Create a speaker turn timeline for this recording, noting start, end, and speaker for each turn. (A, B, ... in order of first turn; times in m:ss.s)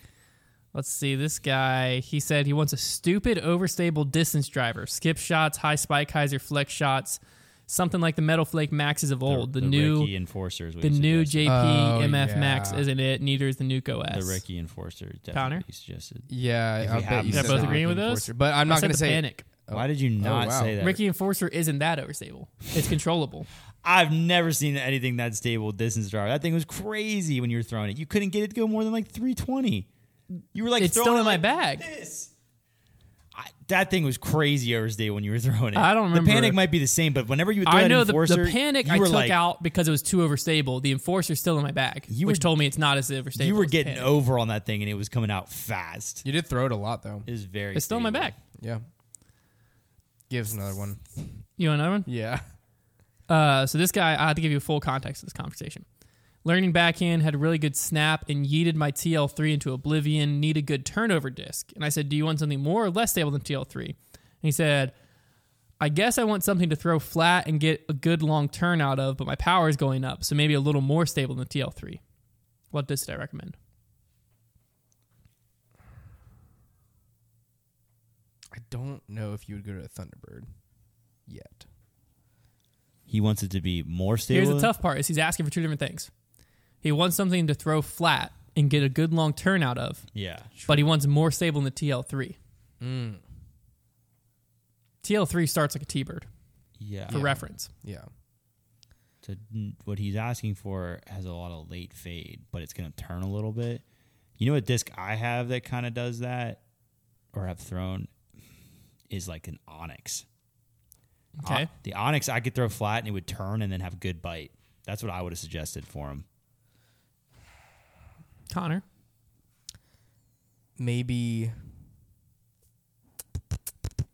0:00.7-0:10.1 A
0:09.2-0:11.5 B
0:10.8-0:14.4 A
0:11.4-0:12.8 C
0:14.1-0:16.3 B
0:15.3-0:15.6 A
0:16.3-0:20.7 C
0:16.8-0:17.8 B
0:17.3-0:19.4 A
0:19.7-0:21.0 B
0:20.8-0:23.5 A
0:23.8-0:29.9 B
0:30.5-0:32.3 B
0:30.8-0:31.8 A
0:33.3-0:39.4 B
0:35.7-0:36.6 A
0:37.6-0:44.1 A
0:42.1-0:42.6 B
0:43.4-0:46.2 B
0:46.2-0:47.3 C
0:47.3-0:48.3 B
0:47.7-0:48.4 A
0:50.3-0:51.0 C
0:51.6-0:52.1 A
0:52.0-0:52.4 C
0:53.3-0:55.8 A
0:56.4-1:04.9 A
1:05.8-1:12.0 A
1:12.7-1:13.6 A
1:18.5-1:20.5 C
1:21.3-1:21.6 C
1:23.1-1:24.7 B
1:24.3-1:26.1 A
1:26.8-1:30.0 A
1:30.1-1:30.5 B
1:30.6-1:32.4 A
1:32.8-1:33.2 C
1:35.0-1:36.3 A
1:36.8-1:37.3 B
1:37.1-1:37.7 A
1:37.1-1:38.1 C
1:39.2-1:43.8 B
1:44.4-1:46.6 B
1:47.3-1:48.1 B
1:49.1-1:50.2 B
1:51.4-1:51.7 A
1:51.4-1:56.2 B
1:58.5-1:58.8 A
2:00.8-2:01.5 C